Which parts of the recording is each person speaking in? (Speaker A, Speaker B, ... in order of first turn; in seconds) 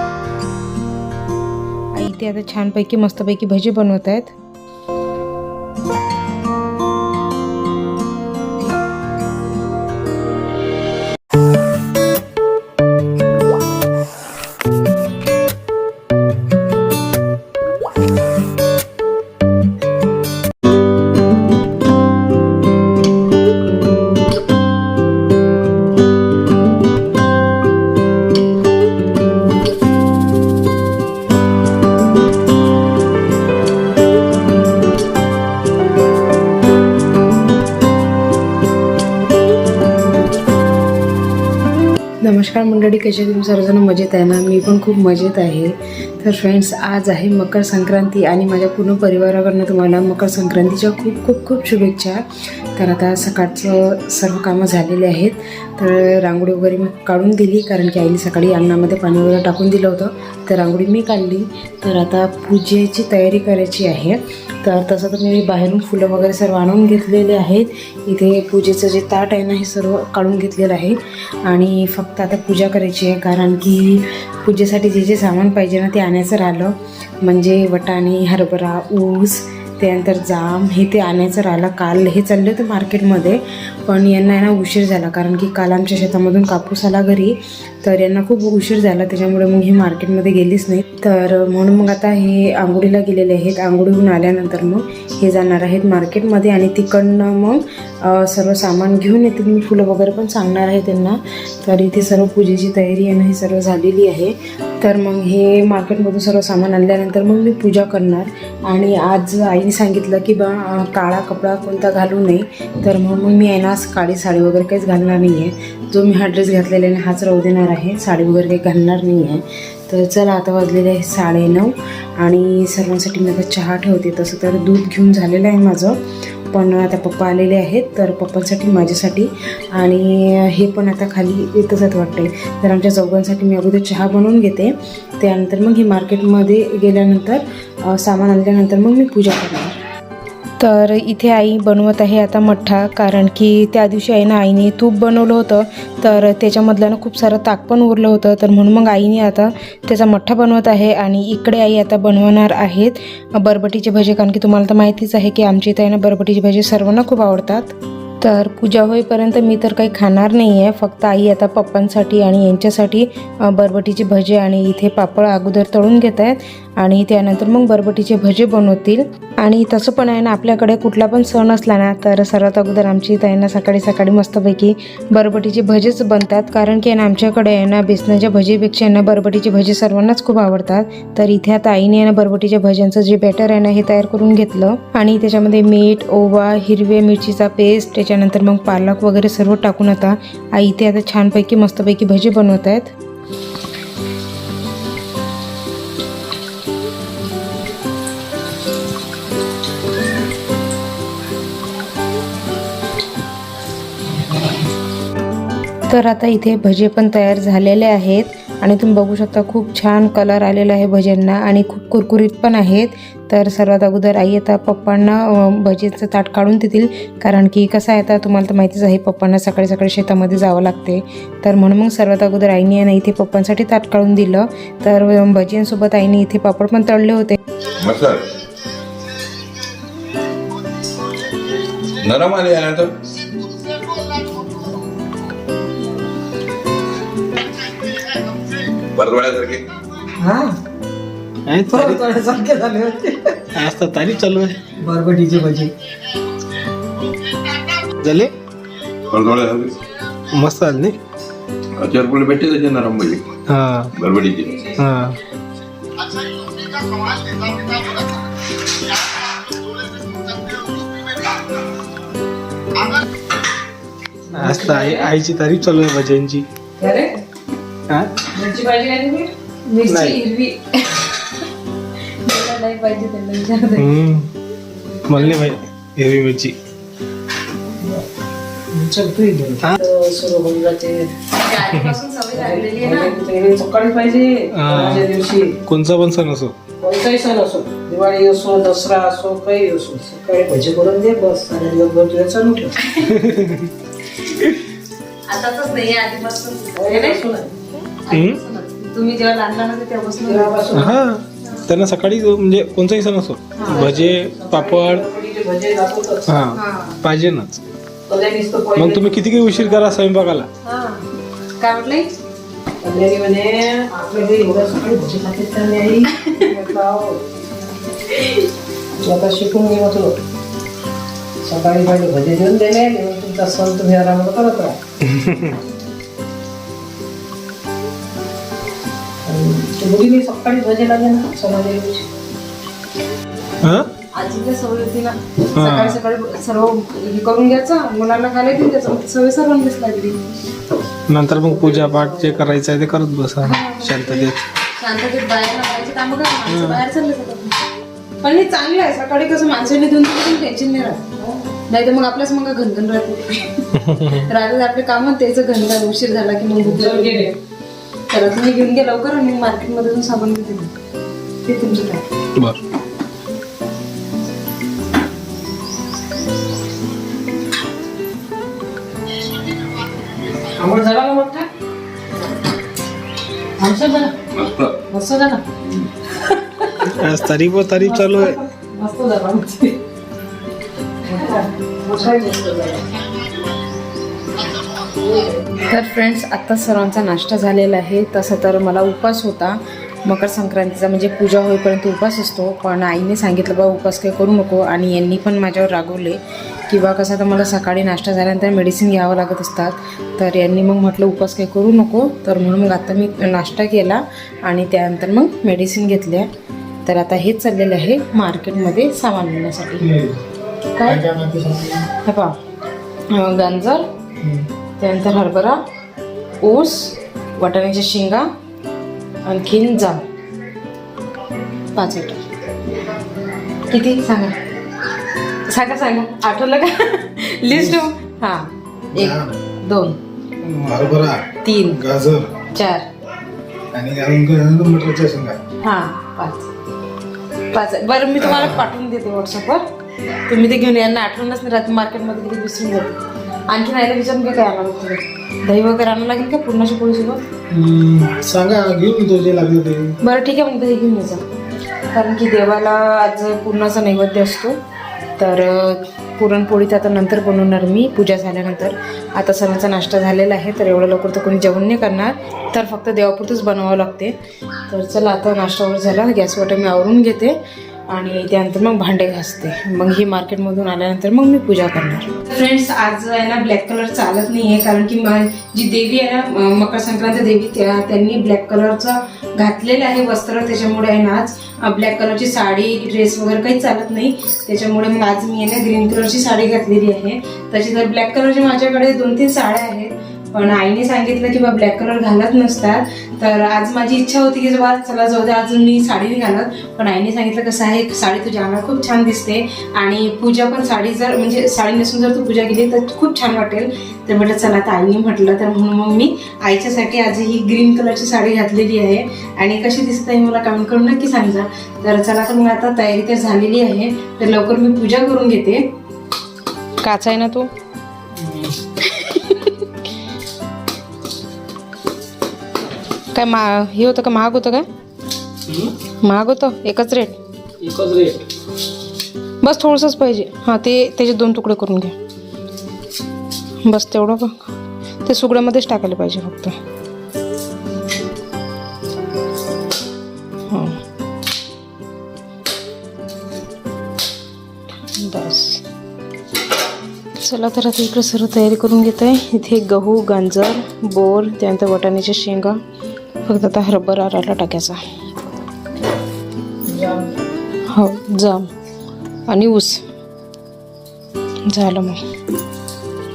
Speaker A: 1.9-4.3, 42.2-52.2, 52.8-126.0, 126.5-139.8, 140.6-192.9, 205.9-227.4, 240.1-240.6, 241.7-243.4, 244.8-245.7, 266.8-267.1, 268.3-271.4, 272.2-273.9, 281.3-283.1, 292.8-293.2, 294.2-294.6, 295.3-297.2, 298.0-300.7, 303.5-304.0, 306.5-307.0, 310.6-311.1, 311.6-312.1, 316.1-316.5, 334.1-340.2, 341.7-342.2, 343.4-347.6, 348.2-351.1, 351.6-357.4, 358.1-360.7, 361.4-362.0, 385.6-406.3, 406.8-409.9, 410.7-411.0, 411.9-412.4, 413.1-413.9, 414.8-415.6, 416.4-418.3, 419.2-420.1, 421.7-422.2, 423.7-424.4, 425.5-430.0, 431.4-431.8, 432.5-432.9, 435.6-436.5, 437.5-439.6, 440.2-447.2, 450.0-451.3, 451.9-454.6, 455.2-464.1, 464.7-467.4, 467.9-515.7, 516.8-517.5, 518.8-519.7, 523.1-524.6, 526.0-527.2, 529.4-531.9, 533.6-534.5, 535.0-536.5, 540.5-540.8, 544.9-545.6, 547.2-552.6, 553.2-554.8, 557.7-558.5, 559.3-559.8, 561.5-562.0
Speaker B: 227.7-228.4, 231.8-232.9, 238.8-239.7, 249.1-249.8, 251.8-253.3, 253.9-254.7, 374.3-374.8
Speaker C: 241.4-242.0, 243.5-244.7, 248.0-248.3, 250.3-251.0, 253.5-253.9, 254.8-255.2, 264.3-266.4, 267.9-268.2, 269.9-270.2, 273.8-274.3, 275.1-276.6, 284.5-285.1, 285.6-286.6, 293.0-293.7, 298.1-298.4, 300.7-305.1, 306.3-307.6, 308.7-310.5, 325.0-325.6, 333.6-333.9, 335.6-336.0, 341.1-344.5, 346.5-346.8, 353.8-354.3, 376.8-378.4, 409.8-410.2, 410.8-411.9, 414.2-414.5, 427.5-427.9, 428.9-429.4, 430.4-432.4, 433.7-435.4, 447.5-450.0, 518.2-518.5, 525.5-525.7, 527.6-528.3
Speaker D: 254.5-254.8, 264.4-264.8, 278.7-281.2, 282.3-285.6, 286.8-292.8, 296.7-297.5, 300.2-301.0, 303.6-306.3, 308.1-309.9, 312.8-317.2, 319.0-320.2, 321.4-324.8, 329.2-332.0, 351.2-351.5, 356.6-357.3, 370.4-371.5, 373.6-374.2, 374.8-376.9, 377.8-379.8, 381.0-382.9, 384.9-385.4, 556.6-557.2